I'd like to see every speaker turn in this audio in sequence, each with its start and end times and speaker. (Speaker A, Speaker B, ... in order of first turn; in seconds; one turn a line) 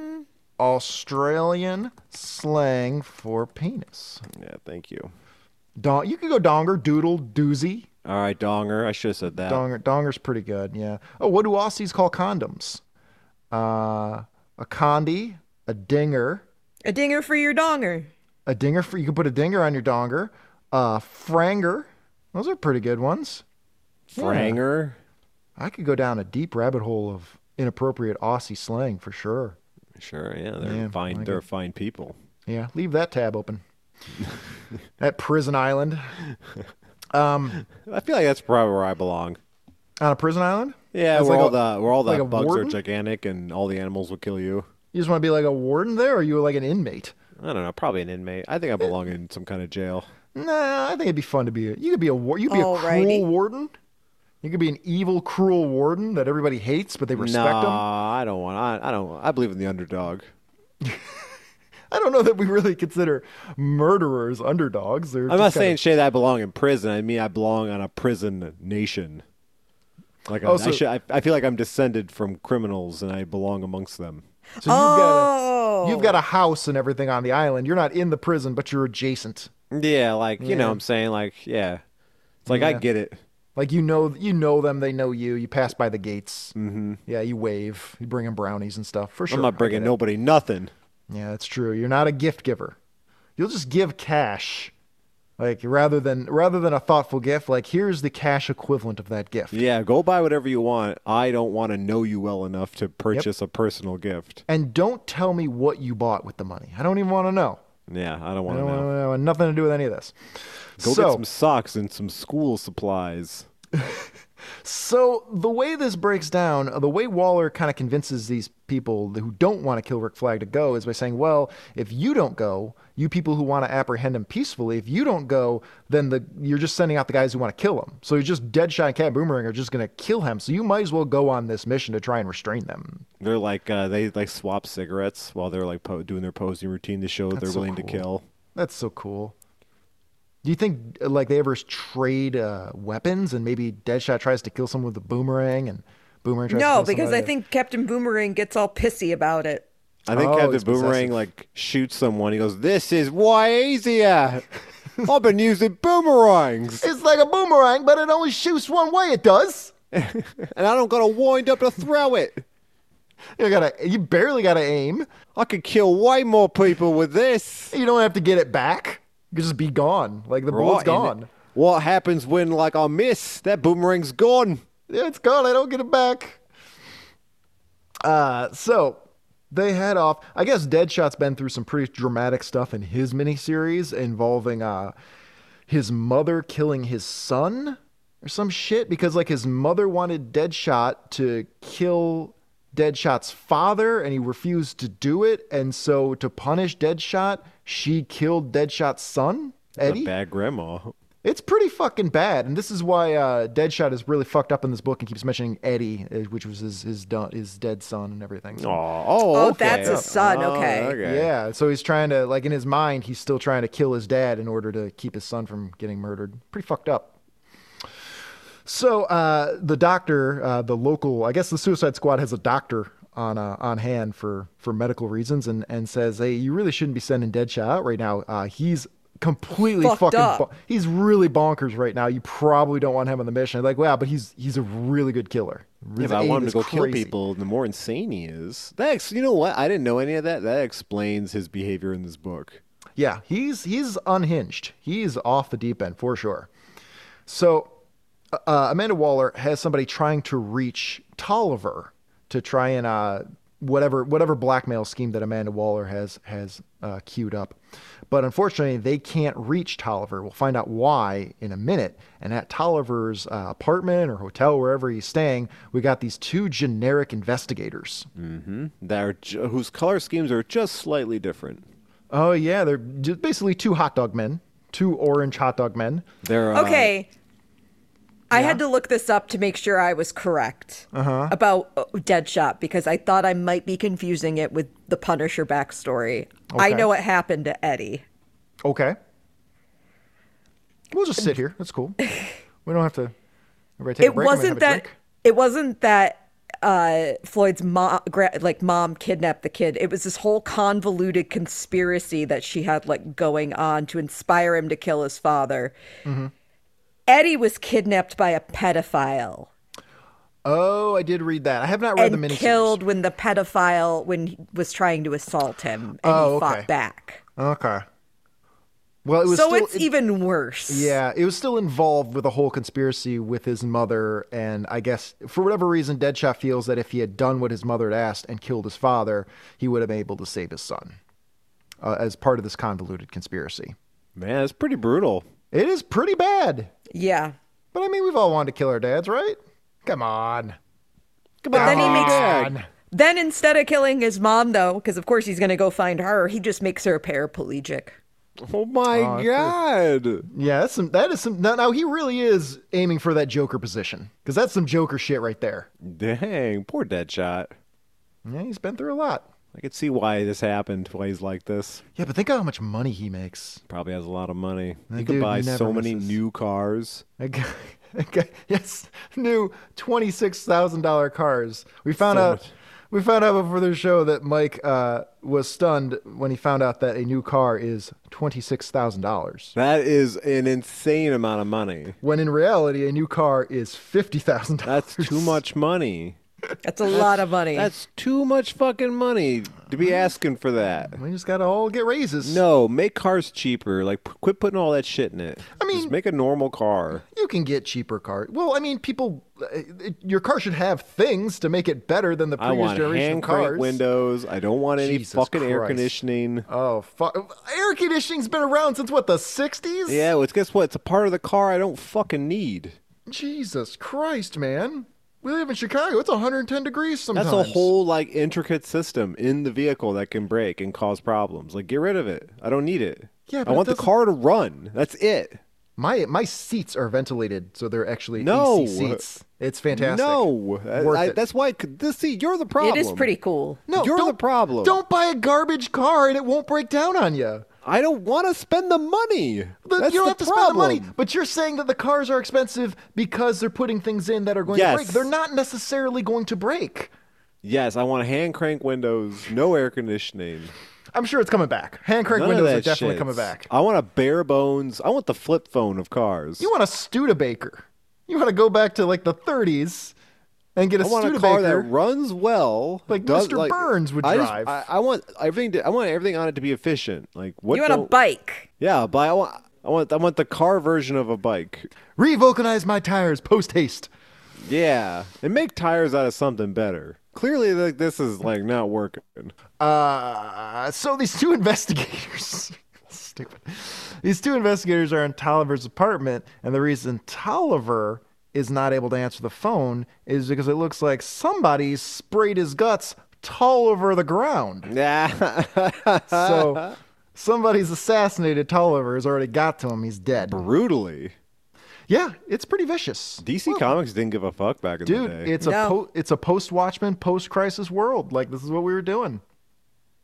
Speaker A: 0.6-4.2
Speaker B: 4.3-5.1
Speaker A: 5.8-7.9
Speaker B: 8.1-9.6
Speaker A: 9.4-12.8
Speaker A: 13.5-16.4
Speaker C: 16.9-18.1
Speaker A: 18.5-23.4
Speaker B: 24.1-25.0
Speaker A: 24.2-24.6
Speaker A: 25.6-29.6
Speaker B: 30.0-32.2
Speaker A: 30.6-31.4
Speaker A: 32.5-33.6
Speaker A: 35.0-36.2
Speaker A: 37.1-37.6
Speaker B: 37.7-39.4
Speaker A: 40.0-42.8
Speaker B: 40.9-44.7
Speaker A: 44.9-47.1
Speaker B: 47.4-50.1
Speaker A: 50.3-53.7
Speaker C: 52.5-53.3
Speaker A: 54.4-57.9
Speaker B: 57.2-60.3
Speaker A: 60.8-61.3
Speaker A: 61.9-65.8
Speaker B: 65.3-69.2
Speaker B: 70.3-74.2
Speaker A: 70.4-70.8
Speaker A: 74.6-75.3
Speaker C: 74.6-76.2
Speaker A: 75.8-79.5
Speaker B: 79.7-81.8
Speaker A: 80.4-80.8
Speaker B: 82.5-83.2
Speaker A: 82.5-82.8
Speaker A: 83.6-86.5
Speaker B: 86.5-87.0
Speaker A: 87.1-90.0
Speaker B: 89.3-90.7
Speaker A: 91.1-92.8
Speaker A: 93.4-94.7
Speaker A: 95.4-99.6
Speaker B: 99.5-104.4
Speaker A: 104.5-107.6
Speaker B: 107.9-108.9
Speaker A: 108.5-110.2
Speaker A: 110.8-111.2
Speaker B: 110.8-113.5
Speaker A: 113.8-114.1
Speaker A: 114.6-133.1
Speaker B: 133.2-138.2
Speaker A: 137.3-139.3
Speaker A: 140.4-147.3
Speaker C: 146.5-149.7
Speaker B: 150.1-154.4
Speaker A: 150.1-151.2
Speaker B: 155.0-156.9
Speaker A: 156.8-159.7
Speaker B: 159.9-162.4
Speaker A: 163.4-165.1
Speaker B: 165.3-167.8
Speaker A: 167.7-171.3
Speaker B: 170.5-174.6
Speaker A: 174.9-176.4
Speaker A: 178.0-184.9
Speaker A: 185.7-200.1
Speaker B: 199.8-200.9
Speaker A: 201.2-208.8
Speaker B: 208.6-211.3
Speaker C: 209.3-211.0
Speaker A: 209.6-210.1
Speaker A: 211.0-217.2
Speaker A: 218.7-237.1
Speaker C: 229.8-230.5
Speaker B: 236.0-242.6
Speaker A: 243.0-246.5
Speaker A: 247.3-247.7
Speaker A: 248.3-257.6
Speaker A: 258.1-268.1
Speaker B: 268.1-271.6
Speaker A: 272.1-276.1
Speaker B: 276.2-276.9
Speaker C: 276.5-277.1
Speaker C: 278.3-288.0
Speaker A: 278.3-278.6
Speaker A: 280.9-281.4
Speaker A: 286.5-286.9
Speaker A: 288.6-289.0
Speaker A: 290.9-292.0
Speaker A: 292.6-293.1
Speaker A: 293.8-295.0
Speaker C: 294.0-305.7
Speaker A: 306.1-306.3
Speaker C: 307.1-309.5
Speaker A: 310.4-312.8
Speaker C: 312.0-317.2
Speaker A: 316.0-316.7
Speaker A: 317.4-317.9
Speaker A: 319.1-319.9
Speaker C: 319.3-321.0
Speaker A: 320.7-331.0
Speaker A: 331.8-333.8
Speaker B: 334.2-335.2
Speaker A: 335.5-336.7
Speaker C: 336.9-337.4
Speaker A: 337.7-340.6
Speaker B: 341.4-342.5
Speaker A: 341.5-342.6
Speaker C: 341.6-342.4
Speaker C: 342.9-348.0
Speaker B: 348.4-350.3
Speaker A: 348.9-349.6
Speaker A: 350.3-355.7
Speaker B: 355.8-357.5
Speaker A: 358.2-359.3
Speaker B: 359.5-361.8
Speaker A: 362.0-363.6
Speaker B: 363.7-367.0
Speaker A: 364.9-366.2
Speaker A: 367.2-379.6
Speaker B: 372.0-372.5
Speaker B: 379.6-382.0
Speaker A: 382.0-385.4
Speaker B: 384.6-386.2
Speaker C: 386.6-387.7
Speaker B: 386.9-391.0
Speaker A: 390.9-392.4
Speaker B: 392.2-397.0
Speaker A: 395.6-395.9
Speaker A: 397.1-403.8
Speaker B: 402.4-406.5
Speaker A: 404.8-410.1
Speaker B: 409.9-412.8
Speaker A: 413.1-417.7
Speaker B: 417.1-425.4
Speaker A: 423.3-423.9
Speaker A: 425.8-431.2
Speaker B: 428.2-429.0
Speaker B: 429.7-433.1
Speaker C: 432.6-433.6
Speaker A: 433.7-437.5
Speaker B: 433.8-434.8
Speaker B: 437.6-440.9
Speaker A: 439.6-446.9
Speaker B: 444.5-445.1
Speaker B: 447.4-450.5
Speaker A: 450.9-453.5
Speaker B: 452.1-456.5
Speaker A: 456.4-459.9
Speaker A: 460.6-461.7
Speaker B: 460.8-467.9
Speaker A: 462.9-464.7
Speaker C: 467.5-468.5
Speaker B: 468.6-471.7
Speaker A: 472.0-473.9
Speaker B: 474.4-479.3
Speaker A: 479.6-494.7
Speaker B: 494.7-496.8
Speaker A: 496.1-500.4
Speaker B: 500.3-501.1
Speaker A: 501.9-503.7
Speaker B: 503.2-505.3
Speaker A: 504.8-509.2
Speaker C: 505.4-505.8